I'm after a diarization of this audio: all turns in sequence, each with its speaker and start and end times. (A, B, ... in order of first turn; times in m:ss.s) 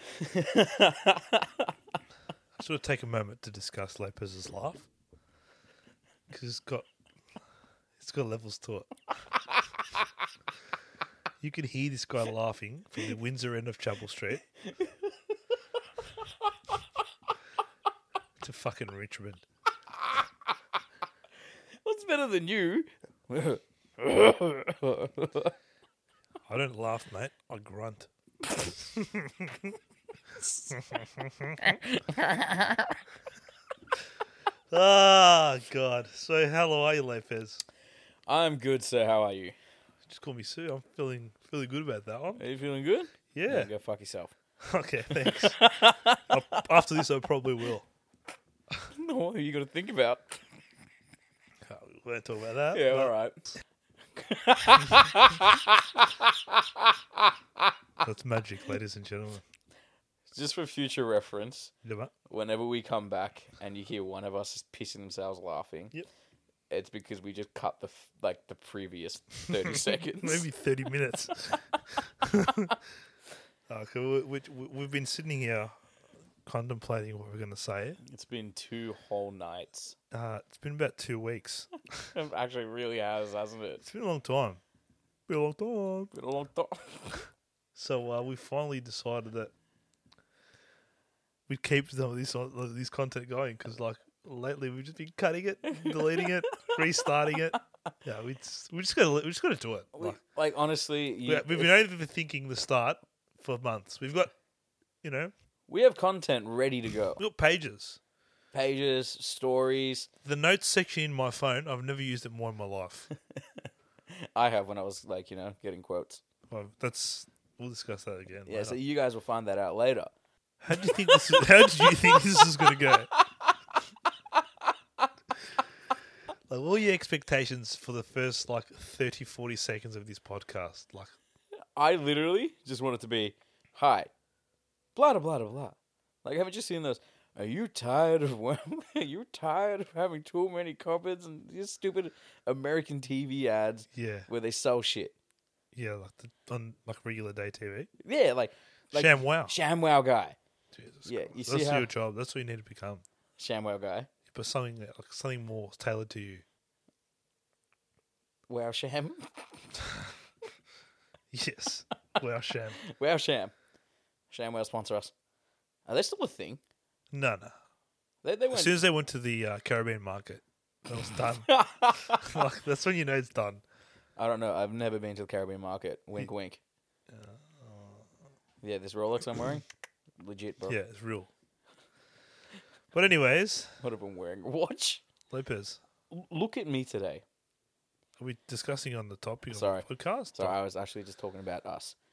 0:00.1-0:01.7 A
0:02.6-0:04.9 B
0:06.3-0:06.9 B
0:08.0-0:08.9 B
0:11.4-0:14.4 B
0:14.6-0:15.2 A
0:16.4-0:16.7 A
0:18.4-0:19.4 B
0:21.8-0:25.5 A
0:26.5-0:28.1 B
0:28.7-0:29.7 B
0:30.4-0:30.8 A
0:30.7-0:31.8 B
0:31.6-0:33.0 A
0:34.7-0:37.6 B
0:38.3-0:39.6 A
0:40.1-0:42.4 B
0:42.4-0:44.3 A
0:43.3-0:43.7 B
0:44.6-0:45.6 B
0:45.2-0:46.7 A
0:46.3-0:47.9 B
0:48.9-0:50.4 A
0:51.6-0:53.1 B
0:52.7-0:53.4 A
0:54.2-0:57.7 A
0:58.0-0:59.4 B
1:00.3-1:01.7 A
1:01.8-1:02.1 B
1:02.3-1:05.9 A
1:06.7-1:10.4 A
1:09.6-1:12.8 B
1:13.7-1:15.7 B
1:16.4-1:18.0 B
1:18.0-1:20.0 A
1:20.1-1:22.1 B
1:22.1-1:23.8 A
1:23.8-1:24.6 B
1:25.3-1:26.1 B
1:26.1-1:27.2 A
1:27.7-1:29.5 B
1:31.5-1:40.2 B
1:35.7-1:37.3 A
1:39.9-1:41.7 A
1:41.3-1:44.3 B
1:45.0-1:45.3 B
1:45.7-1:47.2 A
1:47.2-1:48.0 B
1:48.5-1:50.1 A
1:50.2-1:53.1 B
1:53.2-1:56.2 A
1:56.5-1:58.8 B
1:58.5-2:00.1 A
2:00.6-2:03.1 B
2:00.7-2:03.8 A
2:04.3-2:05.1 A
2:06.5-2:11.1 B
2:11.8-2:14.1 A
2:14.9-2:25.2 A
2:23.9-2:24.3 B
2:25.7-2:27.9 B
2:28.0-2:30.4 A
2:28.9-2:29.5 B
2:30.7-2:33.0 B
2:31.1-2:31.9 A
2:33.4-2:34.1 A
2:34.3-2:36.4 B
2:38.5-2:39.8 A
2:41.3-2:42.8 B
2:42.8-2:43.5 A
2:44.3-2:45.1 A
2:45.9-2:46.6 A
2:47.1-2:47.5 B
2:48.2-2:48.8 A
2:48.5-2:53.6 B
2:51.4-2:52.4 A
2:54.2-2:56.6 A
2:57.1-2:58.1 B
2:58.6-2:59.6 A
3:00.2-3:00.8 A
3:00.7-3:01.3 B
3:02.9-3:03.7 B
3:03.8-3:05.0 A
3:05.3-3:05.8 B
3:06.1-3:07.2 A
3:08.2-3:10.6 B
3:09.5-3:12.0 A